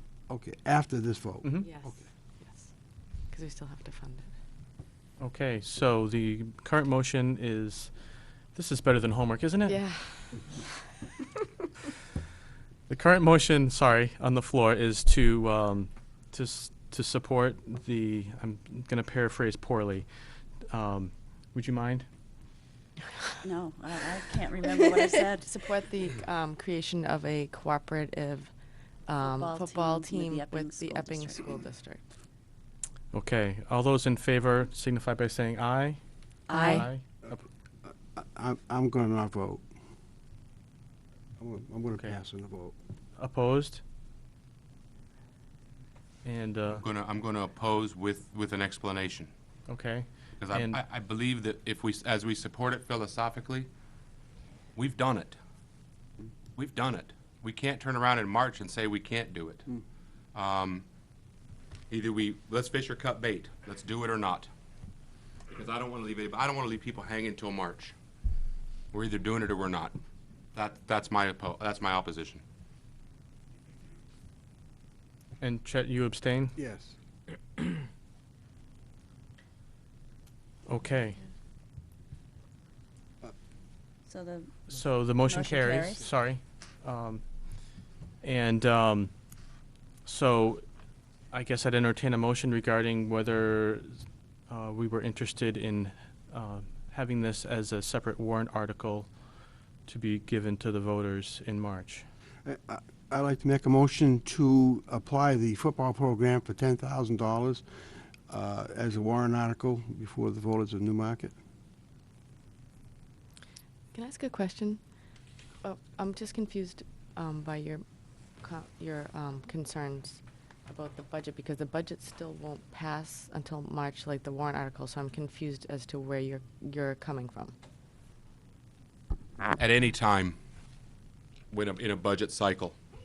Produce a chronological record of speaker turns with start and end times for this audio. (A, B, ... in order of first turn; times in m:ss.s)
0:00.3-0:02.0 A
0:01.6-0:02.7 B
0:03.3-0:04.3 B
0:05.2-0:07.9 C
0:08.5-0:09.8 C
0:09.7-0:10.7 B
0:12.9-0:20.1 C
0:20.7-0:22.1 C
0:23.4-0:25.5 D
0:24.6-0:28.5 B
0:29.0-0:32.0 B
0:29.2-0:31.5 D
0:33.1-0:36.0 C
0:36.5-0:36.9 D
0:36.5-0:37.0 C
0:36.5-0:36.8 B
0:37.2-0:39.6 A
0:41.4-0:42.7 A
0:41.9-0:42.2 C
0:43.2-0:43.8 C
0:46.2-0:46.8 C
0:46.7-0:49.3 E
0:49.7-0:50.8 C
0:50.4-0:53.7 E
0:54.8-0:55.4 E
0:56.5-0:59.7 E
1:00.3-1:00.8 E
1:01.9-1:04.5 E
1:05.5-1:07.9 E
1:08.9-1:10.0 E
1:10.5-1:12.4 E
1:15.4-1:16.5 C
1:16.6-1:17.0 A
1:20.7-1:21.2 C
1:24.1-1:26.0 D
1:24.7-1:27.2 C
1:28.2-1:29.1 C
1:30.0-1:30.6 C
1:31.3-1:39.1 C
1:39.8-1:42.0 C
1:42.4-1:47.6 A
1:48.3-1:51.3 A
1:53.9-1:54.8 B
1:55.6-1:57.8 B
1:58.4-2:07.5 B
2:09.6-2:10.4 E
2:11.5-2:12.8 E